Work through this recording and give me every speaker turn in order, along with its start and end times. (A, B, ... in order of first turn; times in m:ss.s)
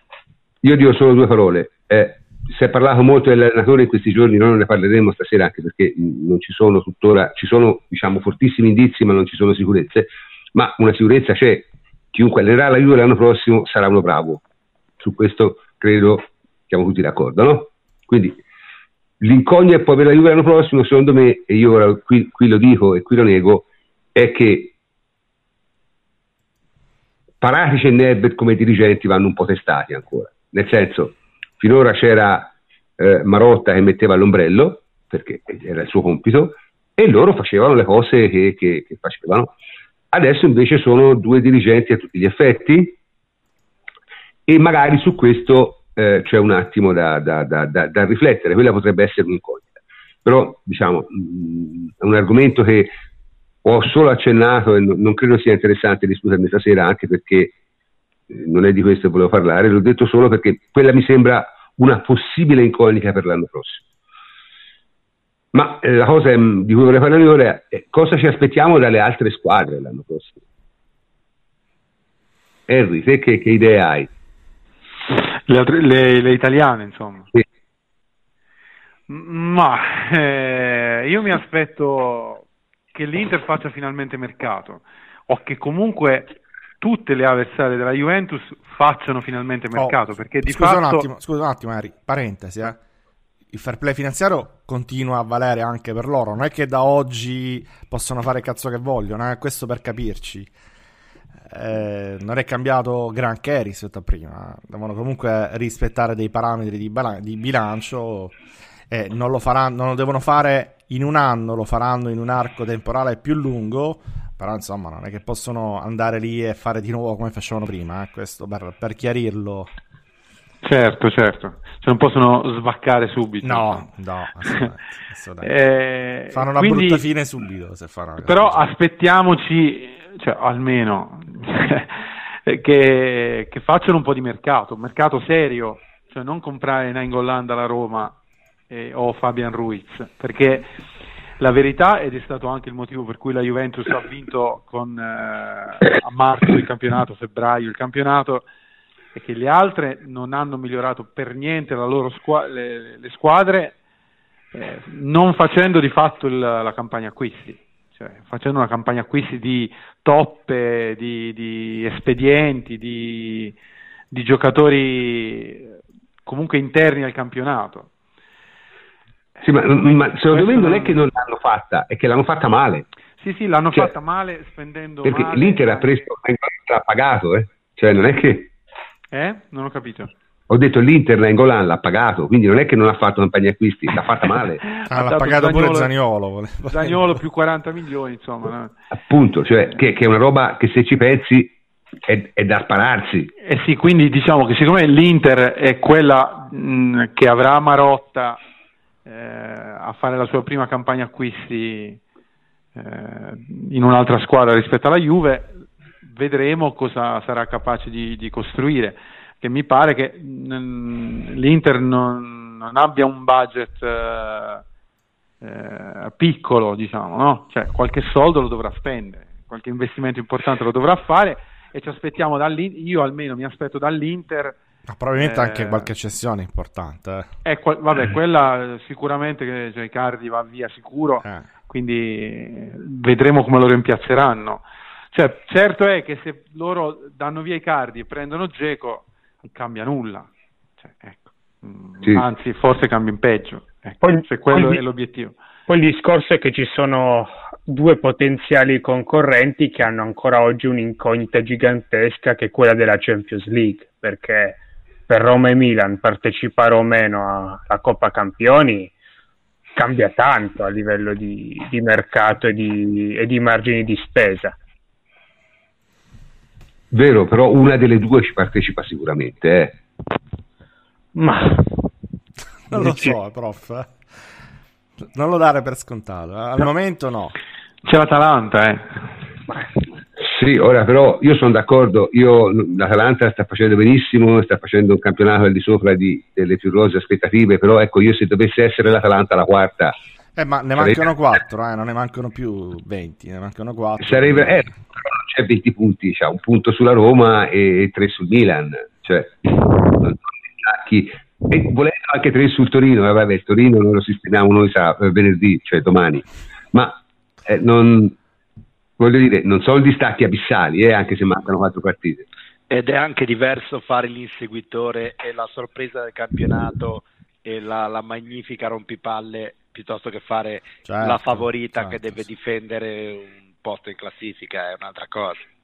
0:00.6-0:14.4 A
0:15.0-0:18.4 A
0:19.2-0:24.7 A
0:27.4-0:39.5 A
0:40.1-0:43.0 A
0:44.5-0:49.7 A
0:50.2-0:52.9 A
0:53.6-0:57.5 A
0:58.3-1:03.8 A
1:05.5-1:10.4 A
1:12.7-1:14.1 A
1:15.5-1:17.3 B
1:19.1-1:31.0 B
1:29.7-1:32.8 C
1:33.5-1:40.5 C
1:41.5-1:48.3 C
1:48.9-1:59.7 C
2:00.6-2:03.8 B
2:03.4-2:05.5 C
2:05.4-2:07.0 B
2:06.3-2:08.6 C
2:08.2-2:18.2 B
2:18.7-2:20.7 B
2:21.4-2:28.4 B
2:29.1-2:33.8 B
2:34.5-2:43.5 B
2:44.1-2:45.7 B
2:46.2-2:47.9 B
2:49.4-2:51.0 B
2:49.4-2:52.8 A
2:53.2-2:56.1 B
2:55.0-2:58.5 A
2:59.1-3:00.1 B
3:00.5-3:04.6 A
3:04.8-3:05.9 B
3:04.8-3:07.2 C
3:06.7-3:08.7 B
3:08.9-3:11.5 A
3:12.1-3:13.3 A
3:13.4-3:18.4 B
3:19.0-3:22.0 B
3:22.8-3:25.5 B
3:26.0-3:34.6 B
3:35.4-3:44.6 B
3:44.9-3:47.3 C
3:45.1-3:45.9 B
3:47.4-4:00.3 B
4:00.8-4:05.3 B
4:04.0-4:04.8 D
4:05.7-4:18.9 D
4:19.8-4:24.6 D
4:26.9-4:29.8 A
4:31.1-4:31.7 D
4:32.7-4:34.0 C
4:32.7-4:33.2 D
4:35.0-4:37.4 C
4:37.8-4:39.0 B
4:40.2-4:49.9 A
4:50.4-4:54.7 C
4:50.8-4:51.1 A
4:54.0-5:08.2 A
5:09.0-5:12.2 A
5:12.7-5:25.5 E
5:20.8-5:22.2 C